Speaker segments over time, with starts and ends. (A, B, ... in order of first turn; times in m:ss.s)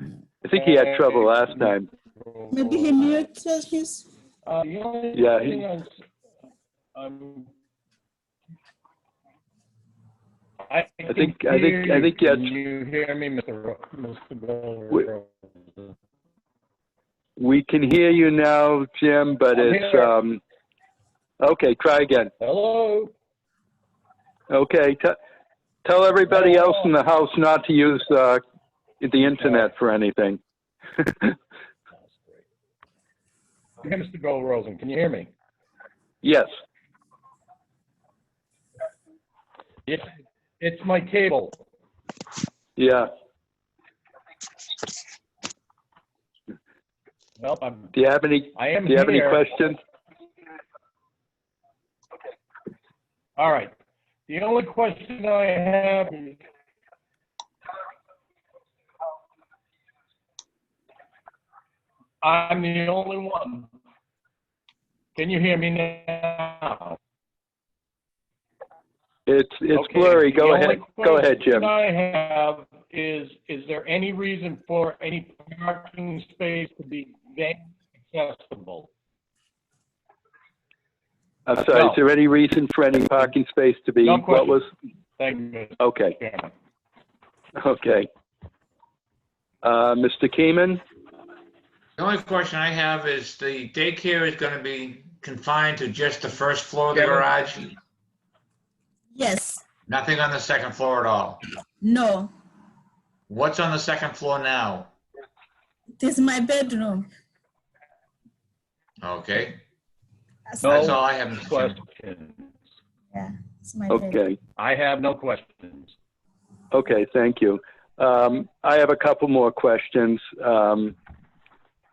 0:00.4-0:01.9 A
0:00.6-0:03.2 B
0:02.5-0:04.1 C
0:04.5-0:05.9 B
0:05.1-0:05.6 A
0:07.0-0:07.5 B
0:10.7-0:15.9 B
0:11.1-0:12.5 A
0:17.4-0:20.4 A
0:19.6-0:20.1 B
0:21.4-0:22.3 A
0:22.4-0:23.1 B
0:24.5-0:25.2 A
0:25.8-0:28.4 A
0:26.3-0:26.7 B
0:29.0-0:30.4 A
0:31.0-0:31.3 A
0:31.9-0:32.4 B
0:33.8-0:35.3 B
0:36.2-0:36.5 A
0:40.6-0:41.6 B
0:42.8-0:43.1 A
0:47.4-0:47.9 B
0:48.0-0:49.8 A
0:48.6-0:49.4 B
0:53.4-0:53.7 B
0:54.3-0:56.4 B
1:02.2-1:03.7 B
1:05.2-1:07.0 B
1:09.3-1:11.7 A
1:09.7-1:18.9 B
1:21.5-1:24.7 A
1:21.7-1:22.0 B
1:24.0-1:26.5 B
1:25.8-1:26.2 A
1:27.6-1:28.1 A
1:29.6-1:30.8 A
1:32.0-1:37.8 D
1:37.0-1:37.2 B
1:39.1-1:39.6 C
1:39.9-1:41.4 D
1:41.8-1:42.3 C
1:43.3-1:44.9 D
1:46.0-1:47.1 C
1:49.0-1:49.6 D
1:50.5-1:50.9 C
1:50.6-1:51.8 D
1:50.6-1:52.5 B
1:53.1-1:54.2 C
1:53.9-1:54.4 A
1:54.6-1:55.9 B
1:56.7-2:01.0 A